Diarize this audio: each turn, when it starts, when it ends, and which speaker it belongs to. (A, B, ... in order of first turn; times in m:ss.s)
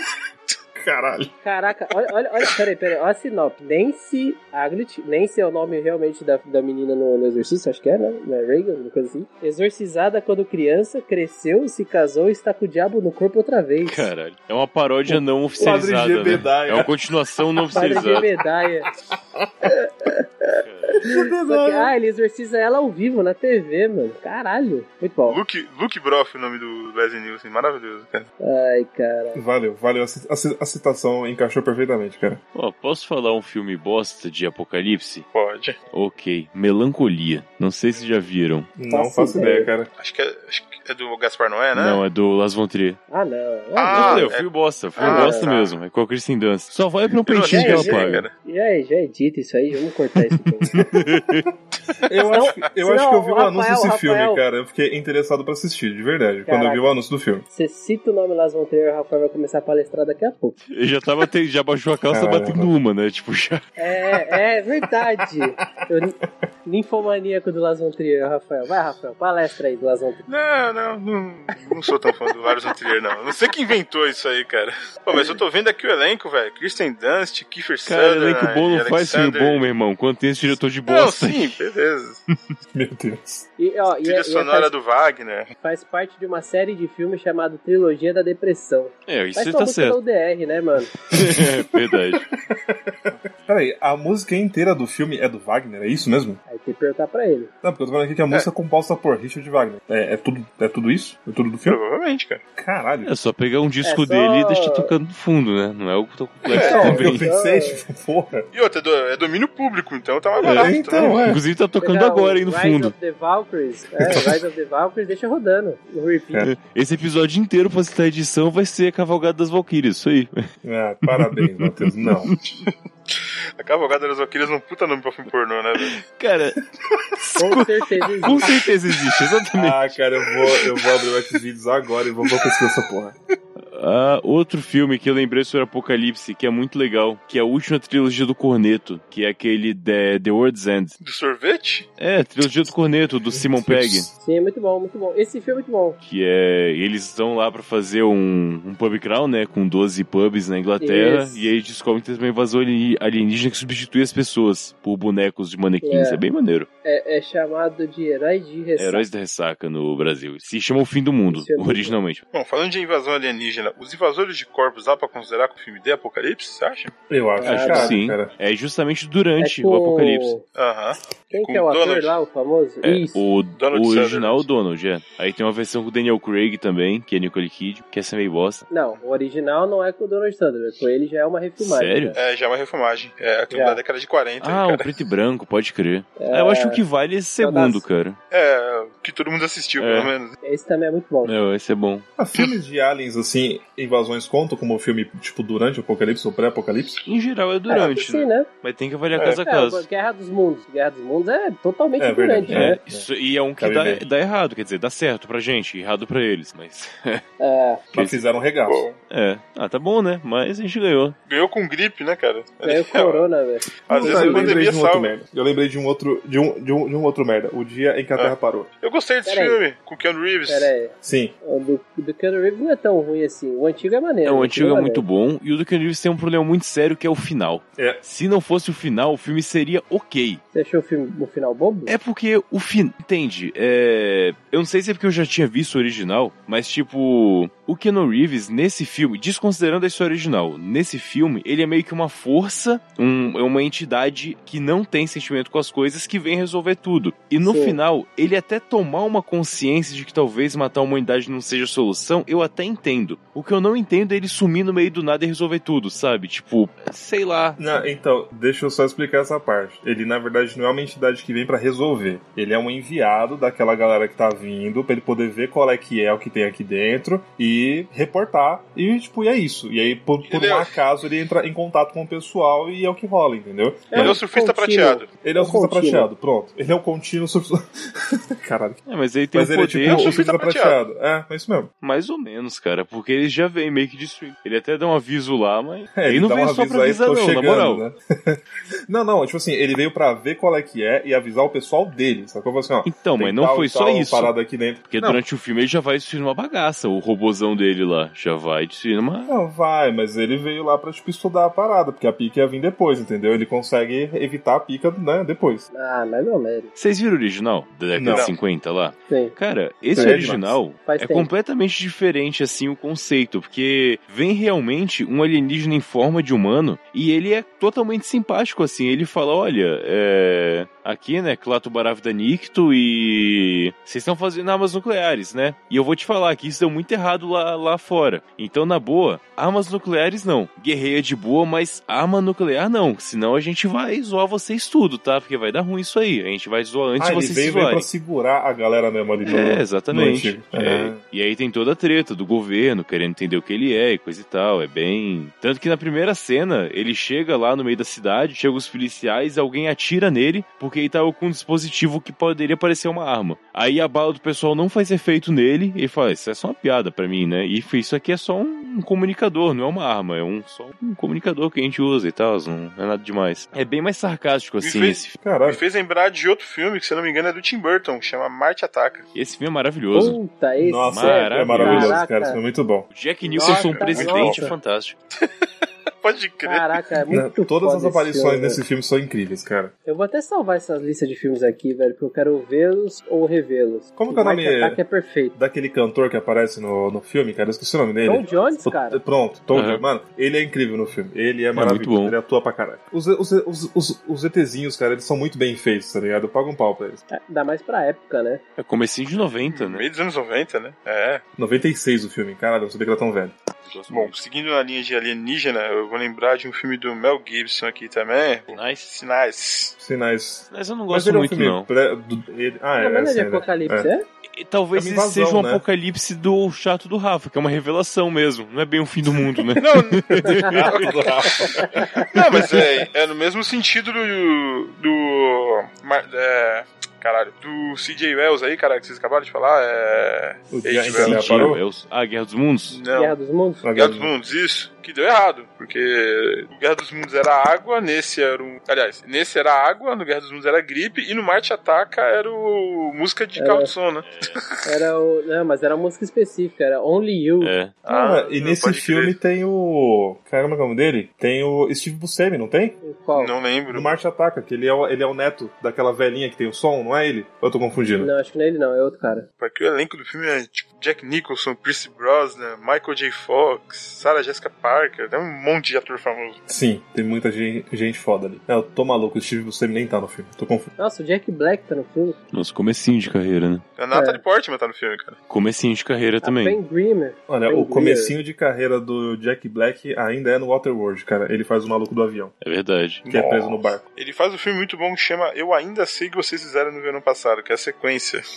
0:00.8-0:01.3 A
0:01.4-0:14.1 B
0:13.8-0:18.3 C
0:15.6-0:17.0 A
0:17.7-0:18.9 B
0:19.4-0:19.7 A
0:19.6-0:25.4 B
0:20.6-0:21.0 C
0:21.0-0:21.9 A
0:25.3-0:28.3 D
0:28.4-0:29.4 B
0:29.3-0:32.4 A
0:32.6-0:35.3 C
0:35.3-0:35.8 D
0:35.9-0:38.7 C
0:38.8-0:39.9 A
0:38.9-0:39.7 B
0:40.0-0:42.0 D
0:41.7-0:43.0 C
0:43.1-0:44.3 B
0:43.8-0:45.8 D
0:43.9-0:48.2 C
0:45.0-0:45.5 B
0:47.3-0:48.3 D
0:47.5-0:50.7 B
0:50.7-0:51.1 A
0:50.7-0:51.5 C
0:52.0-0:57.4 A
0:52.3-0:54.4 B
0:56.5-0:56.8 B
0:57.5-1:00.6 B
1:00.7-1:03.6 C
1:02.1-1:02.7 A
1:03.8-1:10.2 B
1:10.3-1:19.6 D
1:17.9-1:21.6 C
1:20.9-1:22.2 D
1:22.7-1:23.5 A
1:23.6-1:24.7 B
1:24.0-1:25.5 D
1:25.6-1:30.9 B
1:29.1-1:30.0 C
1:31.1-1:32.2 C
1:31.1-1:36.4 A
1:36.5-1:37.5 B
1:37.6-1:41.8 A
1:41.6-1:42.4 D
1:42.6-1:43.1 A
1:43.0-1:47.2 C
1:43.8-1:44.9 B
1:46.5-1:47.0 D
1:46.5-1:47.8 B
1:46.6-1:48.5 A
1:48.5-1:51.2 D
1:50.4-1:52.9 C
1:50.4-1:51.4 A
1:51.8-1:56.5 B
1:54.0-1:54.4 A
1:56.4-2:00.5 C
2:00.6-2:02.3 A
2:01.1-2:02.4 C
2:02.6-2:06.0 D
2:05.9-2:06.6 C
2:07.2-2:09.9 C
2:07.4-2:08.5 B
2:09.5-2:13.2 A
2:13.7-2:21.0 C
2:21.0-2:21.9 D
2:22.0-2:24.1 C
2:23.3-2:24.1 A
2:24.2-2:26.0 B
2:26.0-2:36.7 C
2:30.8-2:31.5 B
2:35.8-2:36.2 B
2:36.8-2:39.0 B
2:38.8-2:42.2 C
2:41.3-2:42.0 B
2:42.3-2:46.9 D
2:47.1-2:48.3 A
2:47.4-2:48.0 B
2:47.4-2:50.4 C
2:49.4-2:50.4 B
2:50.6-2:52.2 D
2:51.3-2:53.2 B
2:52.8-2:58.7 C
2:53.6-2:54.5 D
2:58.7-3:02.2 B
3:01.6-3:02.2 C
3:02.2-3:04.9 D
3:03.5-3:03.8 B
3:04.4-3:08.2 C
3:06.2-3:06.8 B
3:07.4-3:07.8 B
3:08.3-3:10.3 D
3:09.8-3:10.1 C
3:10.4-3:11.3 B
3:11.2-3:12.1 C
3:12.2-3:17.0 A
3:17.1-3:19.9 C
3:17.7-3:18.5 B
3:19.4-3:22.8 B
3:22.0-3:23.1 A
3:22.5-3:27.2 C
3:23.6-3:24.0 A
3:27.4-3:27.8 B
3:27.9-3:28.8 A
3:27.9-3:28.2 C
3:28.6-3:29.0 D
3:29.1-3:31.2 C
3:31.3-3:33.3 D
3:32.6-3:34.6 B
3:33.9-3:35.2 D
3:33.9-3:38.7 A
3:38.2-3:40.7 D
3:39.3-3:39.6 B
3:40.5-3:45.0 B
3:41.0-3:41.3 A
3:44.2-3:50.4 C
3:50.5-3:52.0 B
3:51.9-4:17.6 C
4:07.4-4:07.8 B
4:17.6-4:34.2 A
4:30.3-4:30.8 D
4:33.9-4:36.1 B
4:34.0-4:35.1 D
4:35.2-4:38.8 A
4:38.9-4:40.1 C
4:39.3-4:41.7 A
4:39.8-4:40.8 D
4:41.8-4:47.8 C
4:46.0-4:55.2 A
4:52.8-4:54.3 C
4:54.9-4:59.3 C
4:59.3-5:05.7 A
5:05.7-5:06.7 B
5:06.8-5:37.9 C
5:07.9-5:08.3 A
5:08.1-5:08.4 D
5:09.1-5:09.4 B
5:09.9-5:10.6 A
5:10.0-5:10.3 B
5:10.8-5:11.3 B
5:37.0-5:41.0 A
5:39.2-6:05.2 C
6:04.6-6:09.1 D
6:05.2-6:05.6 A
6:09.2-6:10.2 C
6:09.9-6:12.4 B
6:10.6-6:12.9 A
6:10.9-6:12.0 C
6:12.9-6:15.0 C
6:13.2-6:14.5 B
6:13.4-6:14.5 D
6:15.3-6:16.8 D
6:16.4-6:18.6 B
6:17.1-6:19.7 A
6:19.8-6:25.4 B
6:24.0-6:24.8 A
6:25.4-6:37.0 A
6:28.0-6:29.0 B
6:29.5-6:29.8 C
6:31.5-6:32.2 C
6:37.1-6:38.4 B
6:38.6-6:39.8 C
6:39.5-6:41.2 D
6:41.4-6:43.4 A
6:43.6-6:44.2 C
6:43.9-6:49.8 D
6:48.5-6:48.9 C
6:49.8-6:53.9 A
6:50.5-6:51.7 C
6:52.8-6:54.1 B
6:54.3-7:00.9 C
6:54.7-6:55.6 A
6:59.6-7:01.4 D
7:00.2-7:02.1 A
7:02.0-7:11.6 D
7:10.5-7:11.6 A
7:10.9-7:12.8 C
7:12.7-7:13.2 D
7:12.9-7:13.6 B
7:13.6-7:14.1 A
7:13.8-7:24.7 D
7:23.4-7:23.7 B
7:24.0-7:24.4 C
7:24.6-7:27.5 B
7:27.4-7:27.8 C
7:27.8-7:29.2 D
7:27.9-7:32.8 A
7:32.8-7:33.3 B
7:33.1-7:34.0 D
7:33.7-7:38.1 A
7:38.0-7:39.3 B
7:39.4-7:46.4 D
7:46.5-7:50.7 A
7:50.8-7:52.2 B
7:52.3-7:53.6 C
7:53.8-7:55.2 D
7:53.9-7:54.2 B
7:55.3-7:56.6 C
7:56.2-7:58.2 B
7:57.3-8:02.3 A
8:02.4-8:03.0 C
8:03.0-8:08.2 D
8:03.1-8:03.8 A